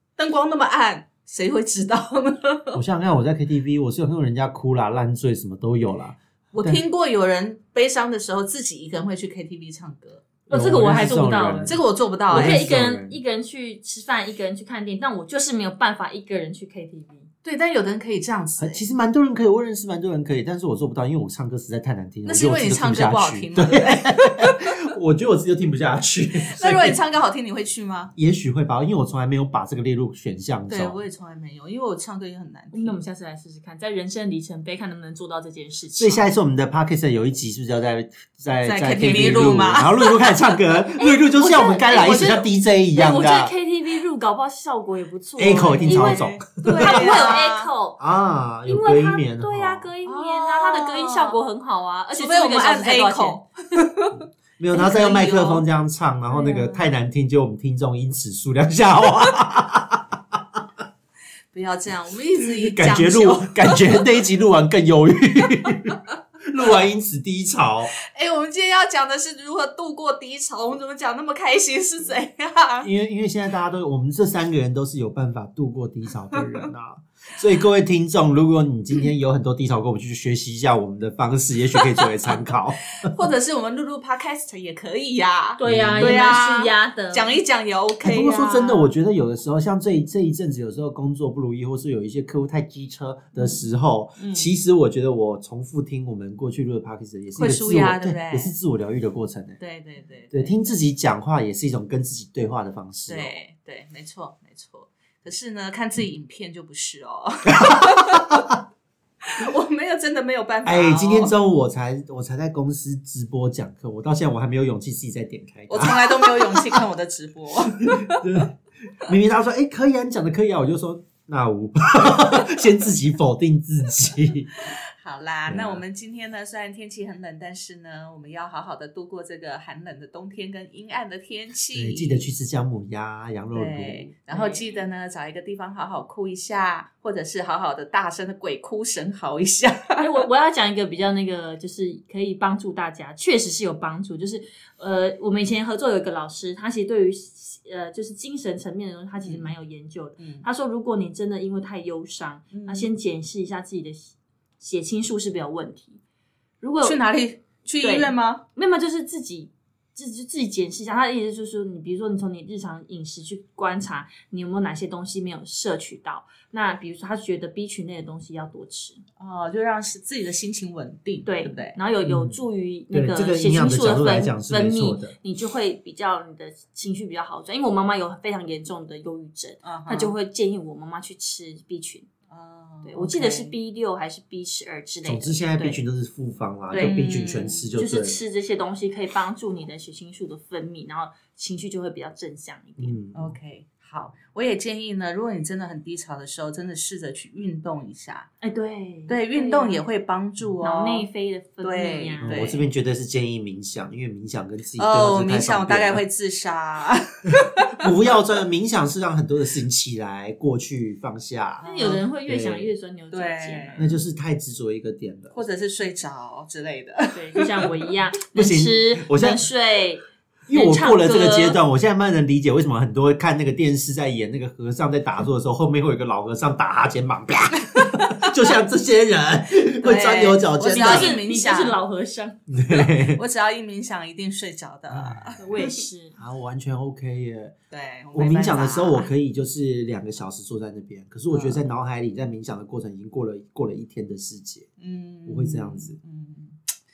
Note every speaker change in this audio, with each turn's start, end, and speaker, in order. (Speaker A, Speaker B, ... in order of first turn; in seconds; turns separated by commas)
Speaker A: 0.2-2.8, Speaker B: 2.7-6.8, Speaker A: 6.5-10.2, Speaker B: 10.5-11.8, Speaker C: 10.5-17.3, Speaker A: 11.7-12.6, Speaker B: 12.3-13.2, Speaker A: 17.4-18.8, Speaker B: 18.6-27.0, Speaker A: 22.2-24.8, Speaker A: 26.5-28.1, Speaker B: 28.1-31.0, Speaker A: 30.7-33.0, Speaker C: 32.7-36.3, Speaker B: 36.0-43.5, Speaker A: 38.6-40.2, Speaker C: 41.0-48.0, Speaker B: 45.4-47.3, Speaker A: 45.8-47.7, Speaker B: 48.0-49.9, Speaker C: 48.7-53.5, Speaker A: 50.0-51.4, Speaker A: 52.1-54.2, Speaker B: 54.6-60.4, Speaker A: 54.7-55.6, Speaker A: 56.3-56.9, Speaker A: 61.5-64.0, Speaker B: 62.4-67.9, Speaker A: 68.1-72.9, Speaker B: 72.8-83.1, Speaker A: 76.3-76.6, Speaker A: 81.8-82.4, Speaker A: 83.0-88.9, Speaker C: 85.6-87.4, Speaker B: 85.6-86.3, Speaker B: 88.0-99.6, Speaker A: 94.2-94.5, Speaker A: 97.3-98.5, Speaker A: 99.6-100.7, Speaker B: 100.3-103.3, Speaker A: 103.1-108.4, Speaker B: 107.5-108.4, Speaker A: 109.2-111.3, Speaker B: 110.6-116.8, Speaker A: 115.7-118.2, Speaker B: 117.8-124.5, Speaker A: 124.7-132.2, Speaker B: 125.5-125.8, Speaker B: 131.7-134.1, Speaker A: 133.5-140.2, Speaker C: 134.3-134.8, Speaker C: 140.0-156.0, Speaker A: 149.2-149.5, Speaker A: 150.2-150.4, Speaker A: 152.5-152.9, Speaker C: 156.6-157.0, Speaker A: 156.8-158.4, Speaker C: 157.8-169.0, Speaker A: 169.2-171.8, Speaker C: 171.2-182.1, Speaker B: 172.0-172.4, Speaker B: 172.9-175.1, Speaker A: 179.6-180.1, Speaker A: 182.3-183.5, Speaker C: 182.8-185.8, Speaker B: 185.0-188.2, Speaker A: 186.7-187.6, Speaker C: 186.7-193.0, Speaker B: 192.8-193.3, Speaker A: 193.1-198.3, Speaker C: 198.4-199.8, Speaker A: 199.1-201.1, Speaker C: 200.6-202.6, Speaker A: 201.6-202.6, Speaker B: 202.2-206.0, Speaker A: 204.8-207.8, Speaker B: 207.3-211.6, Speaker A: 211.6-212.0, Speaker C: 211.6-213.9, Speaker B: 212.2-212.7, Speaker A: 213.1-213.9, Speaker B: 213.8-215.4, Speaker A: 215.3-217.8, Speaker C: 217.1-221.6, Speaker B: 218.3-219.4, Speaker B: 220.5-231.2, Speaker A: 229.8-231.8, Speaker C: 230.7-232.4, Speaker B: 232.5-233.2, Speaker A: 232.7-235.7, Speaker B: 234.9-237.5, Speaker C: 235.4-236.1, Speaker A: 237.7-239.1, Speaker B: 238.1-244.7, Speaker A: 241.3-241.6, Speaker A: 244.8-246.6, Speaker B: 245.3-245.9